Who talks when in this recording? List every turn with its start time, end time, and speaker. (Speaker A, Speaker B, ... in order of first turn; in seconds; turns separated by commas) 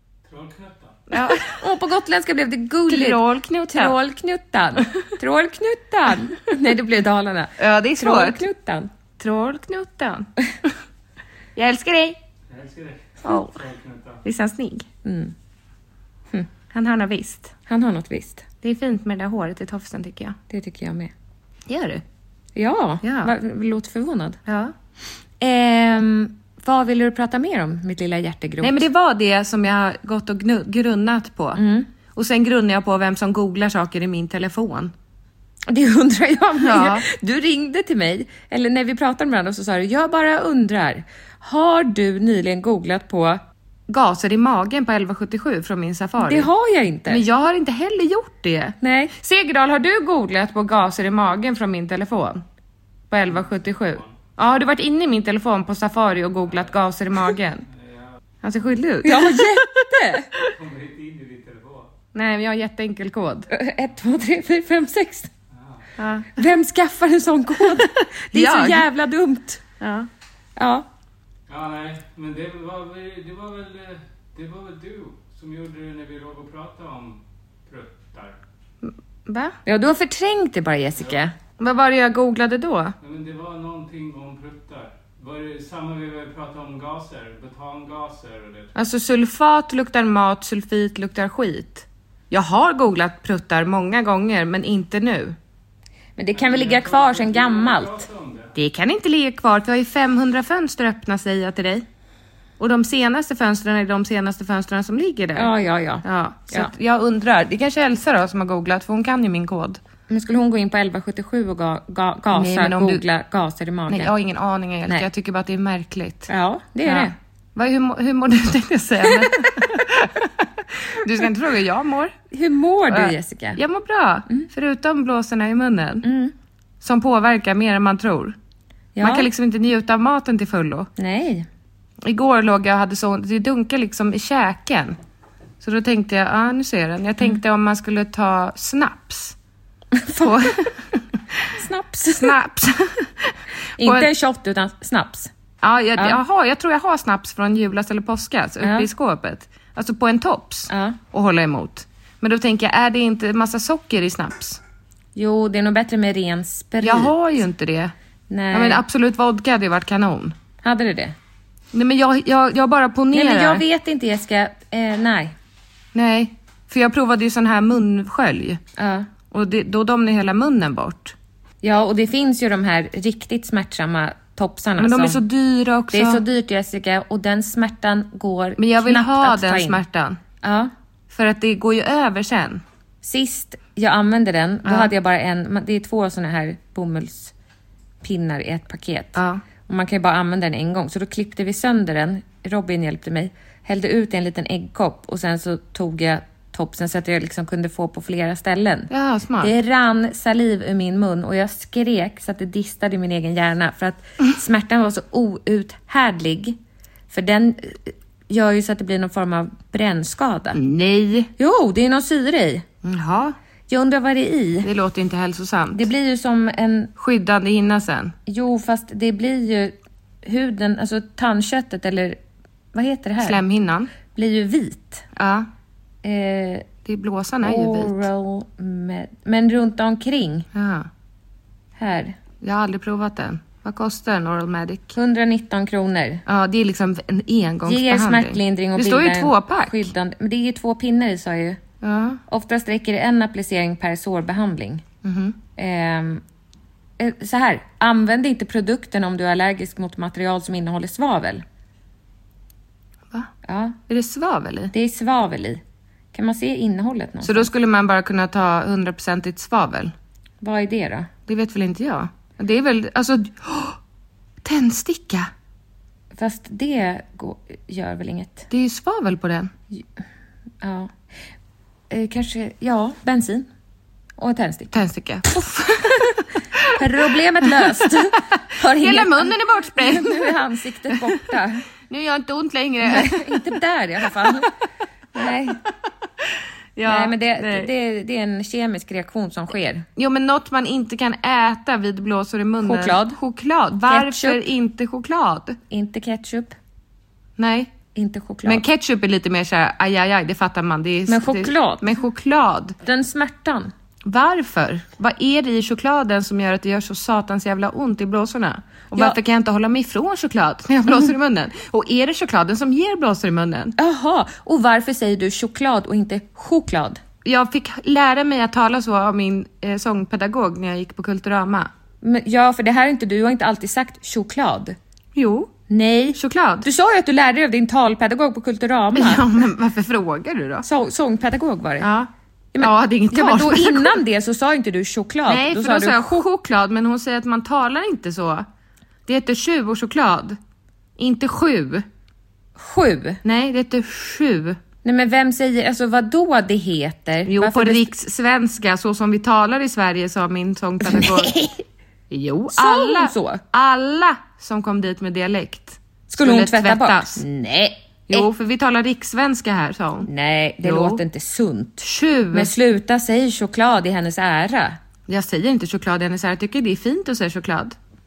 Speaker A: 0.3-1.0, Speaker B: 1.1-1.6, Speaker C: 1.1-8.9, Speaker B: 2.9-4.0, Speaker B: 7.6-8.4, Speaker B: 9.2-10.3, Speaker B: 11.6-12.2, Speaker A: 12.5-14.2, Speaker B: 13.3-13.5, Speaker B: 14.2-14.9, Speaker C: 15.0-15.3, Speaker B: 16.7-17.5, Speaker C: 17.7-18.5, Speaker B: 18.6-20.4, Speaker C: 20.5-21.1, Speaker B: 21.7-22.0, Speaker C: 22.6-24.4, Speaker B: 23.0-23.3, Speaker B: 24.5-24.7, Speaker C: 25.4-28.9, Speaker B: 28.6-31.6, Speaker C: 31.6-31.9, Speaker B: 32.1-34.9, Speaker C: 35.7-43.4, Speaker B: 36.6-37.0, Speaker B: 43.9-46.5, Speaker C: 46.2-47.2, Speaker B: 47.1-52.4, Speaker C: 48.8-49.1, Speaker B: 53.1-57.6, Speaker A: 53.3-54.1, Speaker A: 57.7-58.1, Speaker B: 58.4-59.9, Speaker C: 59.0-60.3, Speaker A: 60.5-61.9, Speaker B: 62.1-63.5, Speaker C: 63.5-65.3, Speaker A: 65.5-65.8, Speaker B: 66.0-66.3, Speaker C: 66.3-69.6, Speaker B: 67.6-68.9, Speaker B: 69.8-70.1, Speaker C: 70.6-70.9, Speaker A: 71.5-78.4, Speaker B: 78.8-79.6, Speaker C: 79.7-81.3, Speaker B: 81.6-83.0, Speaker A: 83.0-88.7, Speaker B: 88.8-95.4, Speaker C: 96.2-98.0, Speaker A: 96.3-98.5, Speaker B: 98.5-101.8, Speaker B: 102.6-105.5, Speaker C: 105.3-106.7, Speaker B: 106.0-109.8, Speaker C: 110.1-114.1, Speaker B: 112.3-113.0, Speaker B: 113.9-116.3, Speaker C: 116.3-117.1, Speaker B: 116.8-122.1, Speaker C: 122.3-123.6, Speaker B: 122.9-126.1, Speaker C: 126.0-126.3, Speaker B: 126.8-128.4, Speaker C: 128.9-129.3, Speaker B: 129.0-130.9, Speaker C: 131.0-131.5, Speaker B: 132.0-135.0, Speaker B: 135.6-139.4, Speaker C: 139.9-140.5, Speaker B: 140.2-141.0, Speaker C: 141.5-142.4, Speaker B: 142.2-144.1, Speaker C: 143.8-145.3, Speaker B: 145.6-154.6, Speaker C: 148.6-148.9, Speaker C: 150.7-151.0, Speaker C: 155.2-157.1, Speaker B: 156.8-157.9, Speaker C: 158.3-158.8, Speaker B: 158.5-160.4, Speaker C: 160.6-161.2, Speaker B: 161.7-163.6, Speaker C: 163.1-165.3, Speaker B: 165.9-168.6, Speaker C: 168.8-169.1, Speaker B: 169.3-171.2, Speaker C: 171.6-175.2, Speaker B: 174.8-176.2, Speaker C: 175.9-179.8, Speaker B: 178.6-180.2, Speaker C: 180.4-180.7, Speaker B: 181.1-182.6, Speaker C: 183.0-187.3, Speaker C: 188.0-206.6, Speaker B: 189.2-189.4, Speaker B: 198.9-199.5, Speaker C: 207.1-210.6, Speaker B: 210.5-211.3, Speaker C: 211.4-212.7, Speaker B: 212.8-213.4, Speaker C: 213.7-214.7, Speaker B: 214.6-215.9, Speaker C: 215.7-216.9, Speaker B: 217.0-218.2, Speaker C: 218.3-222.2, Speaker C: 222.7-223.4, Speaker B: 223.2-223.9, Speaker C: 224.1-225.1, Speaker B: 225.2-225.5, Speaker C: 226.0-226.7, Speaker B: 226.8-228.1, Speaker C: 227.4-230.5, Speaker B: 230.5-230.9, Speaker C: 231.8-232.2, Speaker B: 232.4-235.0, Speaker C: 234.9-236.2, Speaker B: 236.3-239.9, Speaker C: 237.7-241.6, Speaker B: 241.8-242.2, Speaker C: 242.3-244.8, Speaker B: 245.0-245.4, Speaker C: 245.6-246.2, Speaker C: 247.0-251.4, Speaker C: 253.4-253.8, Speaker B: 253.9-254.7, Speaker C: 254.7-255.6, Speaker C: 256.1-257.5, Speaker B: 257.2-259.9, Speaker C: 260.4-261.1, Speaker B: 261.3-263.8, Speaker B: 264.4-265.3, Speaker C: 266.1-268.5, Speaker B: 268.5-269.5, Speaker C: 270.6-270.9, Speaker C: 271.9-273.5, Speaker C: 274.2-274.7, Speaker B: 274.7-276.8, Speaker C: 276.7-281.6, Speaker B: 278.7-280.4, Speaker B: 280.9-281.2, Speaker B: 281.9-283.4, Speaker C: 282.8-284.5, Speaker C: 285.1-285.6, Speaker B: 286.8-287.7, Speaker C: 286.9-289.9, Speaker B: 290.0-295.6, Speaker C: 292.6-293.2, Speaker C: 293.9-294.4, Speaker C: 295.7-296.6, Speaker B: 297.4-297.7, Speaker C: 297.9-298.6, Speaker B: 298.4-302.8, Speaker C: 301.1-301.9, Speaker C: 302.8-303.7, Speaker B: 304.1-313.8, Speaker C: 313.8-317.0, Speaker B: 317.2-321.7, Speaker C: 322.0-324.8, Speaker B: 325.2-325.5, Speaker C: 325.7-329.3, Speaker B: 326.2-326.7, Speaker B: 328.9-330.7, Speaker C: 330.6-331.9, Speaker B: 331.8-333.9, Speaker C: 332.5-336.3, Speaker B: 335.3-338.5, Speaker B: 339.1-340.4, Speaker B: 341.0-341.9, Speaker C: 342.6-343.2, Speaker B: 343.2-344.6, Speaker C: 344.8-347.9, Speaker B: 347.2-351.3, Speaker C: 350.8-351.6, Speaker B: 352.1-357.2, Speaker C: 352.5-353.4, Speaker C: 356.1-358.3, Speaker B: 358.1-360.1, Speaker C: 360.1-364.8, Speaker B: 360.6-361.0, Speaker B: 361.8-362.5, Speaker B: 365.1-367.8